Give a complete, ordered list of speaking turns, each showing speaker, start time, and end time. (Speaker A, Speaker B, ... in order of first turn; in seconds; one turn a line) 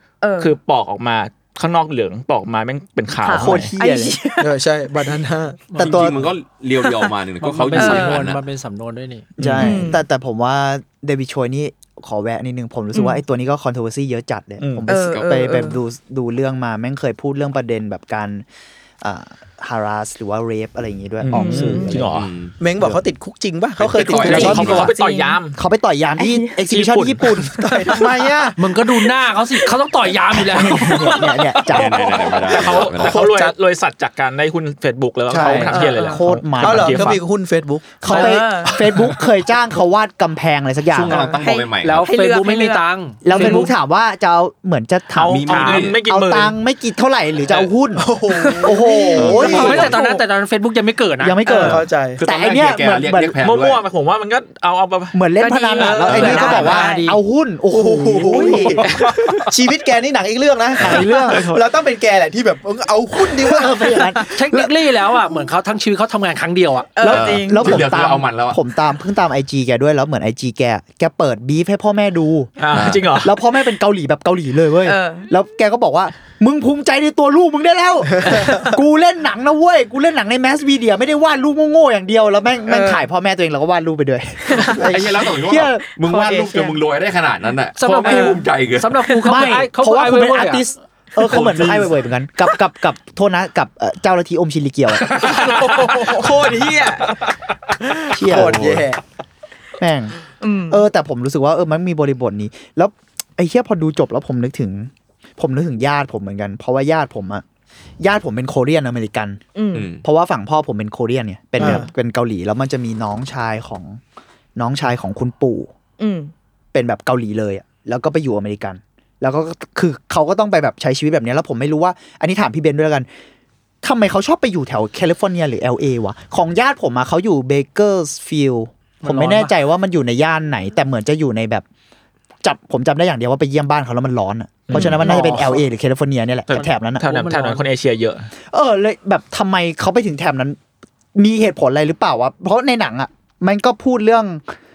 Speaker A: 0.2-0.6
Speaker B: 0.4-3.8
Speaker A: 3.2-4.5
Speaker C: 3.3-4.3
Speaker D: 4.4-6.2
Speaker E: 5.7-6.1
Speaker F: 5.8-8.4
Speaker A: 6.8-7.1
Speaker E: 7.4-9.3
Speaker A: 7.8-8.2
Speaker C: 9.4-18.4
Speaker B: 9.4-9.8
Speaker A: 9.6-10.0
Speaker A: 12.9-13.2
Speaker B: 14.6-14.9
Speaker A: 14.9-15.8
Speaker C: 19.0-22.1
Speaker B: 21.2-22.3
Speaker A: 21.3-21.9
Speaker F: 22.1-22.6
Speaker D: 22.6-24.9
Speaker F: 23.8-24.9
Speaker B: 24.1-25.6
Speaker C: 24.3-24.9
Speaker A: 24.8-25.4
Speaker C: 25.5-27.7
Speaker A: 26.2-26.6
Speaker B: 26.7-27.4
Speaker D: 27.5-28.6
Speaker E: 28.6-31.2
Speaker C: 30.5-32.5
Speaker B: 31.0-37.2
Speaker F: 31.7-33.2
Speaker D: 32.5-33.5
Speaker C: 35.3-37.2
Speaker D: 35.3-35.9
Speaker A: 35.7-36.2
Speaker D: 36.6-38.2
Speaker C: 38.0-41.3
Speaker A: 38.1-38.8
Speaker F: 40.9-42.1
Speaker A: 41.1-43.7
Speaker E: 41.8-43.7
Speaker C: 43.2-48.1
Speaker B: 45.1-46.6
Speaker F: 45.3-46.0
Speaker D: 48.0-49.9
Speaker A: 48.3-50.1
Speaker C: 48.6-50.0
Speaker E: 49.4-51.6
Speaker C: 51.2-53.4
Speaker D: 51.5-52.2
Speaker F: 52.2-53.8
Speaker B: 53.4-55.2
Speaker C: 55.1-58.9
Speaker A: 55.4-57.1
Speaker E: 55.8-57.2
Speaker B: 56.1-56.4
Speaker F: 56.1-56.6
Speaker D: 57.7-64.1
Speaker B: 58.4-59.5
Speaker C: 60.8-61.5
Speaker B: 60.8-61.6
Speaker C: 63.5-64.3
Speaker E: 64.3-66.9
Speaker A: 67.0-67.8
Speaker C: 67.0-72.5
Speaker F: 67.1-68.6
Speaker B: 72.6-73.3
Speaker F: 72.7-73.0
Speaker C: 73.2-86.0
Speaker A: 74.8-75.3
Speaker D: 78.2-78.7
Speaker A: 82.7-83.0
Speaker A: 84.5-84.8
Speaker F: 84.7-89.1
Speaker A: 86.1-86.8
Speaker E: 87.8-90.7
Speaker A: 88.1-88.4
Speaker C: 89.2-95.1
Speaker B: 91.3-91.9
Speaker B: 95.2-97.1
Speaker E: 95.2-96.0
Speaker D: 98.1-99.0
Speaker C: 98.1-98.8
Speaker C: 99.8-100.2
Speaker A: 100.4-100.8
Speaker C: 100.7-107.4
Speaker C: 108.0-109.4
Speaker A: 109.5-109.9
Speaker F: 109.8-110.0
Speaker C: 110.0-114.0
Speaker D: 111.6-111.9
Speaker C: 114.6-115.7
Speaker A: 116.0-116.3
Speaker C: 116.7-123.1
Speaker C: 123.8-131.7
Speaker E: 129.0-129.5
Speaker C: 132.4-137.1
Speaker B: 134.7-135.5
Speaker E: 134.8-135.7
Speaker B: 136.5-138.3
Speaker E: 136.6-137.7
Speaker C: 138.4-140.6
Speaker C: 141.2-144.5